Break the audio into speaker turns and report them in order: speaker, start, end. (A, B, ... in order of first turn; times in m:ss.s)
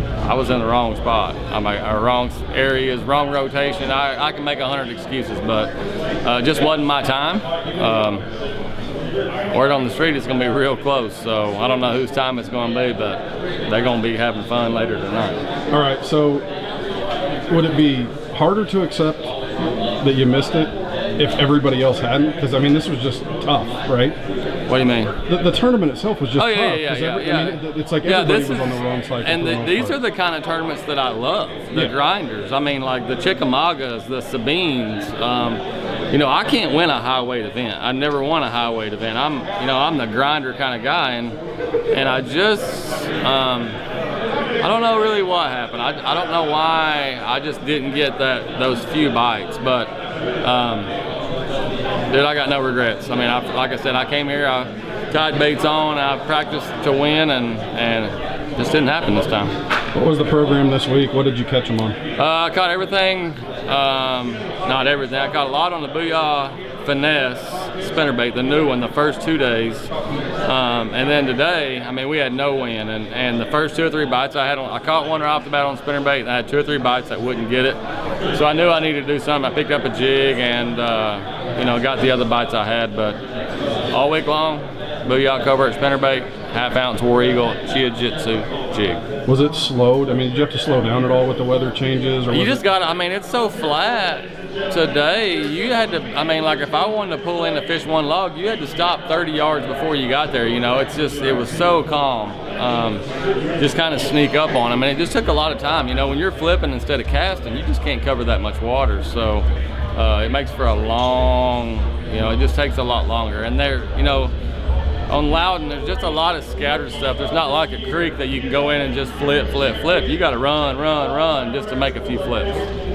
0:00.2-0:05.7 A
0:06.2-0:08.2 A
0:09.5-0:15.4 A
0:15.7-0:16.5 B
0:17.5-0:19.3 B
0:20.0-0:24.2 B
0:24.7-0:25.2 A
0:25.2-0:30.0 B
0:26.4-0:41.4 A
0:41.9-0:43.8 A
0:44.6-0:50.9 A
0:52.1-0:59.6 A
0:59.9-1:02.0 B
1:02.2-1:09.9 A
1:10.5-1:17.8 A
1:18.3-1:23.2 A
1:23.9-1:29.0 A
1:29.3-1:32.6 B
1:32.3-1:43.0 A
1:43.6-1:54.3 A
1:55.1-2:02.7 A